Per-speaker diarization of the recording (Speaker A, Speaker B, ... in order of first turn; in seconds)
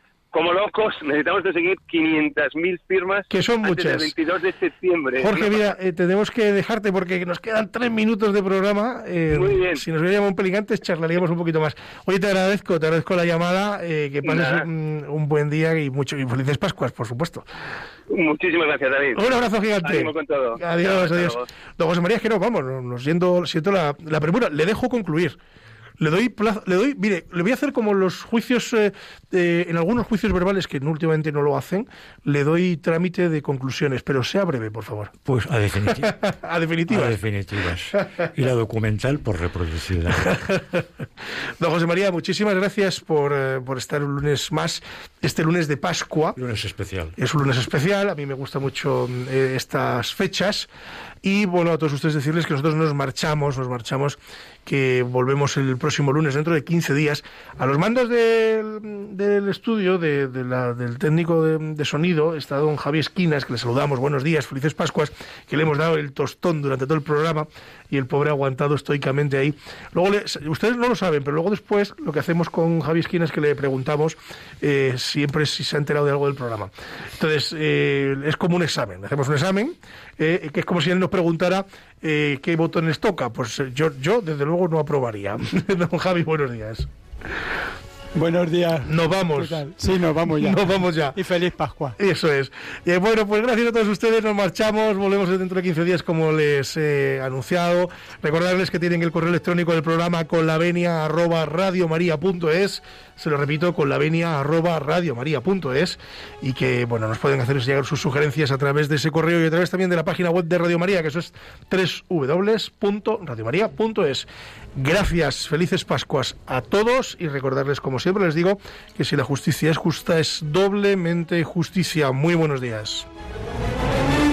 Speaker A: 0.3-5.7, 9.3-9.8, 14.2-14.7, 18.1-21.5
Speaker B: 3.3-4.1, 5.2-17.5, 19.1-25.4, 26.0-35.1, 35.9-37.2, 40.2-40.8, 41.6-46.4, 47.2-50.7, 51.2-86.9, 88.8-89.7, 90.3-91.2, 92.0-123.1
Speaker C: 35.2-36.2, 36.9-40.4, 46.4-47.2
Speaker D: 88.2-92.0